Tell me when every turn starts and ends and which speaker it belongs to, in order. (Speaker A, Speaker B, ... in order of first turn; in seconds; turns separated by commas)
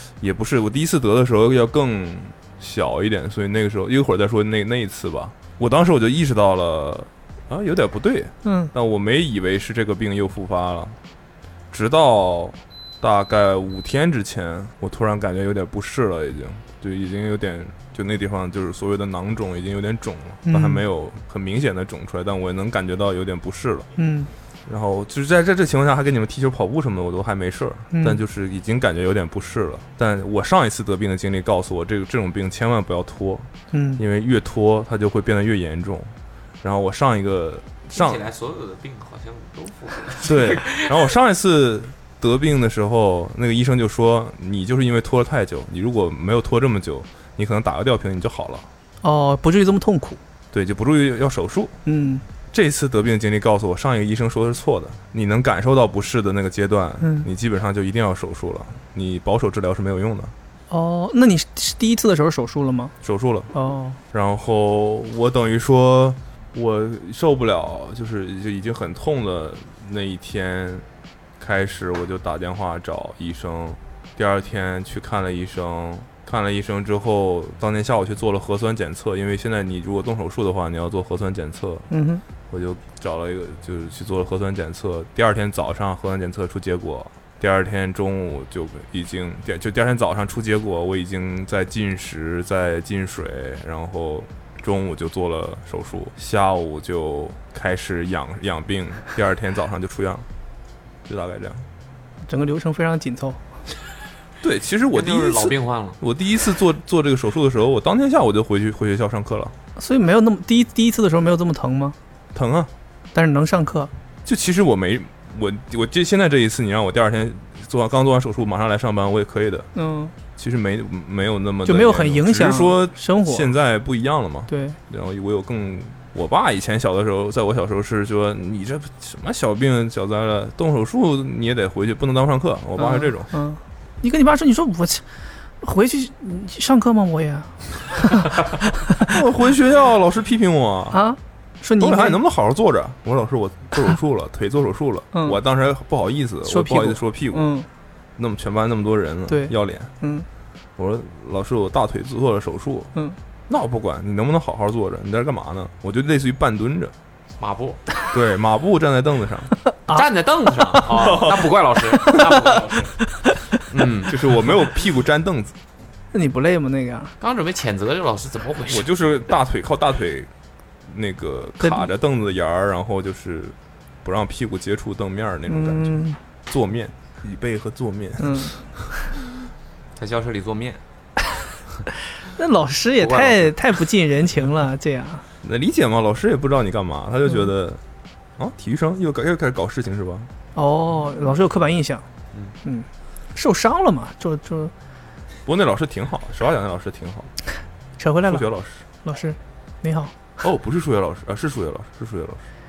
Speaker A: 0.2-11.0, Speaker B: 8.4-8.7, Speaker A: 11.7-23.9, Speaker B: 20.4-20.8, Speaker B: 24.0-24.3, Speaker A: 24.7-38.2, Speaker B: 27.9-28.2, Speaker B: 33.7-34.0, Speaker C: 37.9-41.0, Speaker A: 40.2-48.7, Speaker B: 49.0-50.2, Speaker A: 50.5-51.7, Speaker B: 51.9-52.2, Speaker A: 52.5-60.3, Speaker B: 57.0-57.3, Speaker B: 60.7-62.9, Speaker A: 63.0-63.5, Speaker B: 63.5-64.0, Speaker A: 64.1-70.8, Speaker A: 71.4-81.9, Speaker B: 81.9-82.2, Speaker A: 82.5-100.3, Speaker A: 101.0-101.6, Speaker B: 102.3-103.4, Speaker A: 104.4-109.5, Speaker C: 104.9-106.0, Speaker B: 109.8-112.0, Speaker A: 112.3-112.7, Speaker B: 113.1-113.9, Speaker A: 114.2-119.7, Speaker B: 119.7-120.1, Speaker A: 120.4-133.3, Speaker B: 121.6-123.5, Speaker B: 124.5-124.8, Speaker B: 132.8-135.0, Speaker B: 135.6-138.3, Speaker A: 139.1-141.0, Speaker B: 140.9-142.2, Speaker A: 141.8-147.4, Speaker B: 145.1-145.4, Speaker B: 146.4-147.7, Speaker A: 148.2-149.9, Speaker B: 149.3-150.2, Speaker A: 150.8-152.9, Speaker A: 153.5-156.9, Speaker C: 157.4-157.8, Speaker A: 158.1-159.5, Speaker C: 159.9-162.9, Speaker A: 160.9-161.5, Speaker C: 163.7-164.2, Speaker A: 164.0-165.6, Speaker B: 166.1-167.1, Speaker C: 167.2-168.9, Speaker A: 168.7-170.3, Speaker A: 170.9-178.6, Speaker B: 175.5-176.2, Speaker B: 178.2-178.6, Speaker C: 179.9-180.8, Speaker B: 182.3-185.2, Speaker C: 183.0-183.5, Speaker A: 185.4-187.8, Speaker A: 188.4-190.3, Speaker B: 190.5-192.0, Speaker B: 192.6-194.7, Speaker A: 195.4-197.3, Speaker B: 198.0-198.4, Speaker A: 198.2-198.8, Speaker B: 199.0-200.1, Speaker A: 200.4-202.4